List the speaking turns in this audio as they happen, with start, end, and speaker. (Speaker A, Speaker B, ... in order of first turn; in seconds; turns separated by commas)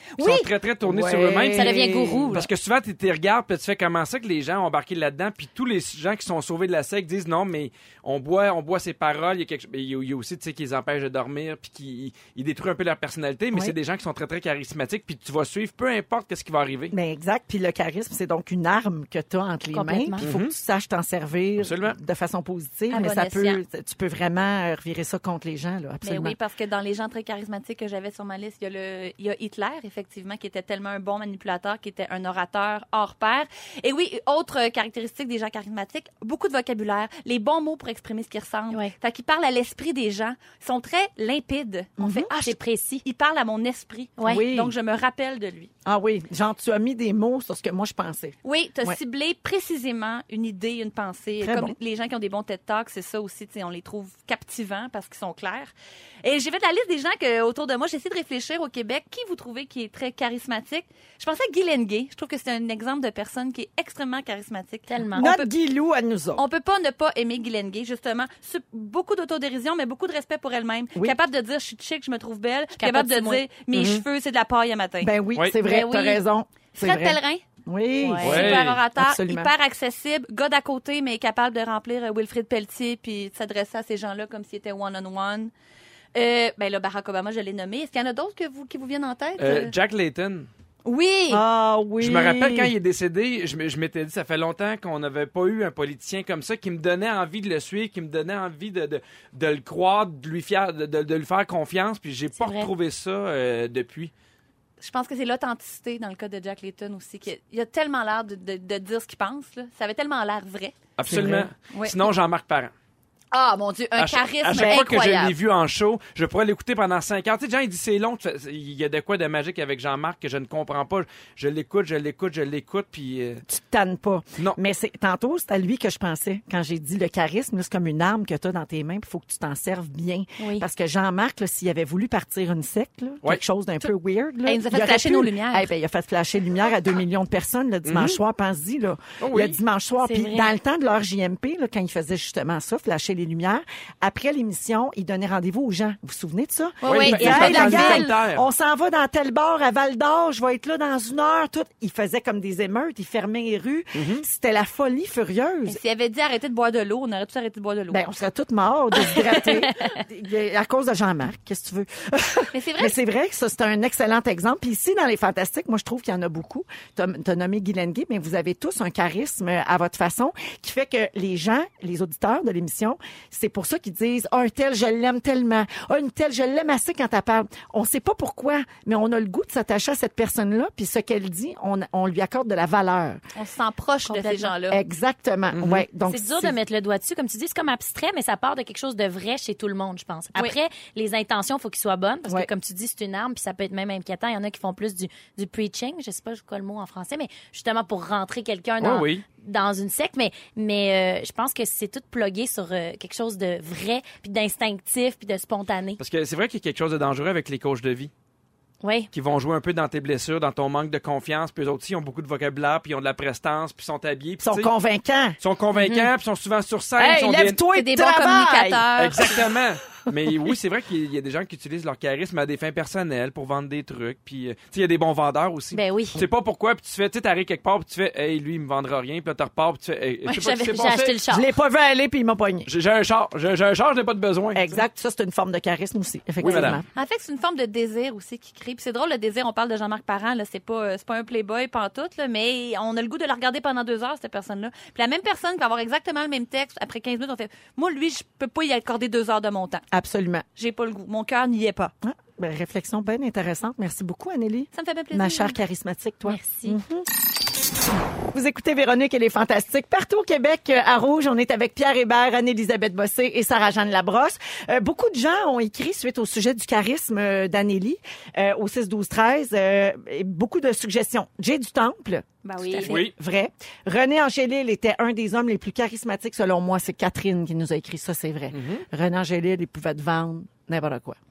Speaker A: 0.2-0.5, Speaker B: 0.2-16.9, Speaker C: 0.3-2.4, Speaker D: 1.5-2.5, Speaker C: 16.9-26.4, Speaker D: 19.7-20.2, Speaker B: 20.2-20.5, Speaker B: 21.6-22.0, Speaker A: 22.9-23.6, Speaker A: 26.0-45.7, Speaker C: 42.0-42.3, Speaker D: 42.4-43.0, Speaker D: 44.2-44.4, Speaker C: 44.3-44.7, Speaker C: 45.9-49.0, Speaker A: 48.4-55.7, Speaker C: 51.4-51.8, Speaker A: 56.2-65.5, Speaker D: 64.9-65.3, Speaker C: 65.2-66.4, Speaker A: 66.4-75.1, Speaker D: 72.8-73.4, Speaker B: 73.7-74.0, Speaker C: 75.0-79.5, Speaker D: 75.7-76.0, Speaker A: 75.7-76.1, Speaker A: 76.8-77.4, Speaker D: 78.0-78.3, Speaker A: 78.2-85.5, Speaker B: 78.2-78.8, Speaker A: 86.1-89.7, Speaker B: 89.4-90.5, Speaker A: 90.8-91.4, Speaker C: 91.3-92.7, Speaker B: 92.0-104.1, Speaker D: 102.4-102.7, Speaker A: 104.8-110.8, Speaker B: 111.0-112.7, Speaker C: 111.1-111.5, Speaker A: 111.7-112.1, Speaker A: 113.3-115.4, Speaker B: 114.0-123.4, Speaker C: 114.6-114.8, Speaker C: 123.5-155.8, Speaker D: 130.4-130.7, Speaker A: 134.5-135.7, Speaker B: 137.9-138.2, Speaker B: 139.2-139.6, Speaker D: 140.0-140.5, Speaker A: 146.8-148.1, Speaker B: 146.9-148.5, Speaker D: 147.3-147.7, Speaker B: 153.9-154.2, Speaker A: 155.7-158.1, Speaker C: 157.9-183.2, Speaker D: 159.3-160.0, Speaker A: 162.5-162.9, Speaker A: 183.3-184.8, Speaker D: 184.1-184.5, Speaker C: 184.7-186.6, Speaker B: 185.5-185.8, Speaker D: 186.1-206.0, Speaker B: 198.8-199.2, Speaker B: 206.0-208.1, Speaker D: 208.8-209.1, Speaker B: 209.1-214.7, Speaker C: 214.4-215.4, Speaker B: 215.4-217.6, Speaker D: 215.8-216.1, Speaker C: 217.0-218.9, Speaker A: 217.7-219.4, Speaker B: 219.0-231.2, Speaker D: 225.7-226.2, Speaker A: 230.3-231.0, Speaker D: 230.7-231.5, Speaker C: 231.3-232.7, Speaker B: 232.7-234.8, Speaker C: 234.5-236.9, Speaker B: 236.4-236.8, Speaker A: 236.9-249.8, Speaker C: 249.9-250.4, Speaker A: 250.6-251.9, Speaker C: 252.0-257.1, Speaker A: 254.8-255.6, Speaker D: 256.3-256.8, Speaker C: 258.3-272.3, Speaker A: 272.4-273.1, Speaker C: 272.8-281.2, Speaker B: 272.9-273.1, Speaker B: 278.5-278.9